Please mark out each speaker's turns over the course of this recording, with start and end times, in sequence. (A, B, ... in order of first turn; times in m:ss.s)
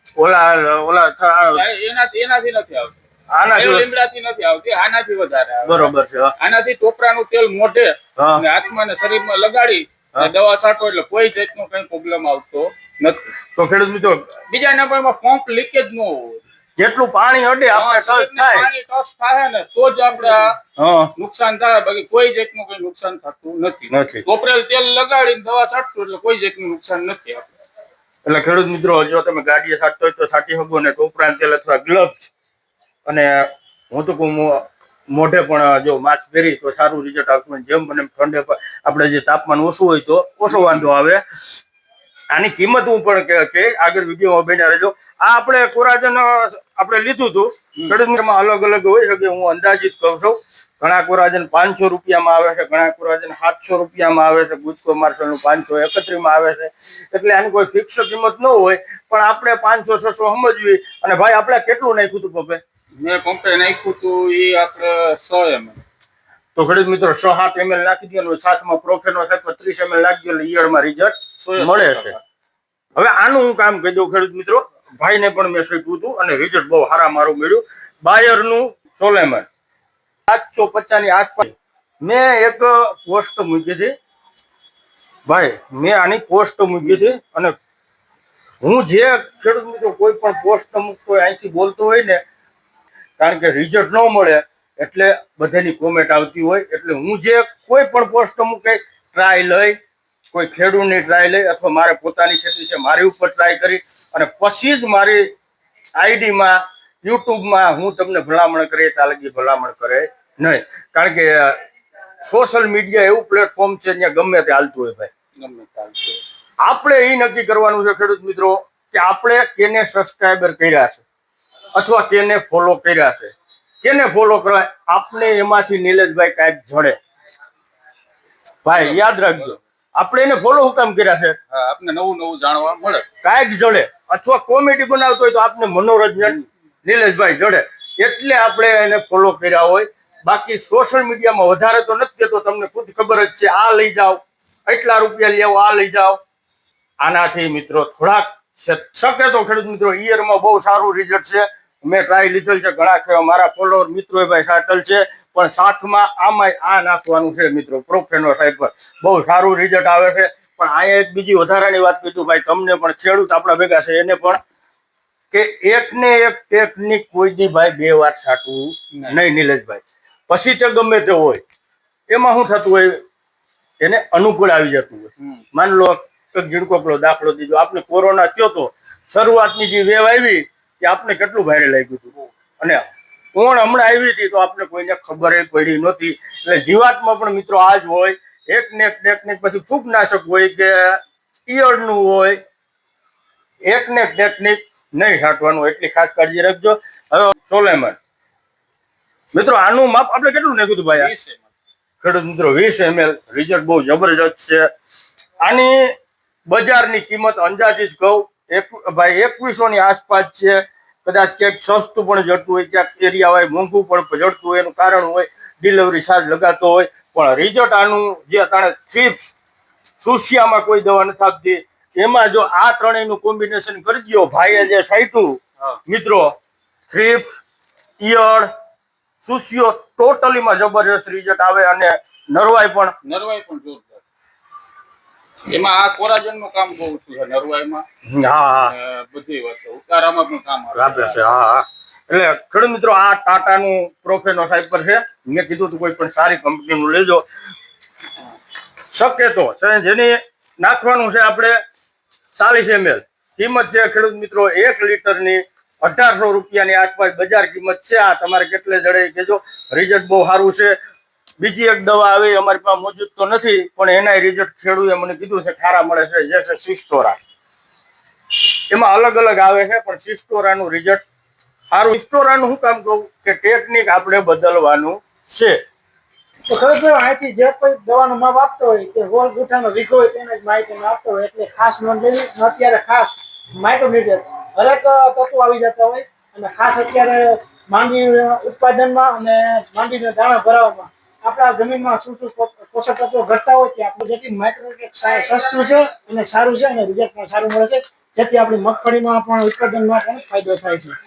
0:00.2-0:01.6 A
0:01.5-0:02.9 B
0:03.3-0:03.9 A
0:03.5-0:13.3 B
0:05.6-0:06.3 A
0:08.2-0:08.4 A
0:13.6-0:14.3 A
0:14.5-0:16.4 B
0:16.8-0:18.7 A
0:17.7-0:20.6 B
0:20.8-0:21.1 A
0:21.2-0:27.5 B
0:23.9-0:24.2 A
0:28.2-0:32.3 A
0:33.1-0:41.2 A
0:40.5-0:40.9 B
0:42.3-1:02.6 A
1:03.0-1:05.8 B
1:06.6-1:12.2 A
1:11.4-1:12.2 B
1:13.0-1:19.5 A
1:20.3-1:23.9 A
1:25.3-1:27.6 A
1:28.6-1:32.2 A
1:33.2-1:39.8 A
1:40.3-1:45.3 A
1:46.0-1:51.6 A
1:52.2-1:55.1 A
1:55.4-1:56.2 B
1:56.6-2:01.0 A
2:01.7-2:07.0 A
2:08.6-2:11.4 A
2:08.7-2:09.6 B
2:11.5-2:13.0 B
2:13.2-2:26.2 A
2:27.0-2:44.4 A
2:45.3-2:51.4 A
2:52.1-2:53.0 A
2:53.8-3:12.4 A
3:13.7-3:18.0 A
3:19.3-3:21.1 A
3:20.9-3:21.5 B
3:22.0-3:24.7 A
3:25.4-3:26.0 A
3:26.5-3:39.3 A
3:40.0-3:46.4 A
3:46.9-3:47.4 A
3:48.0-3:48.5 A
3:49.2-3:53.0 A
3:53.0-3:54.0 B
3:55.5-3:57.8 B
3:58.1-3:58.7 A
3:58.6-4:01.2 B
4:00.7-4:07.2 A
4:08.9-4:11.6 A
4:12.3-4:20.8 A
4:21.4-4:27.2 A
4:28.7-4:31.0 A
4:31.7-4:35.6 A
4:36.5-5:01.0 C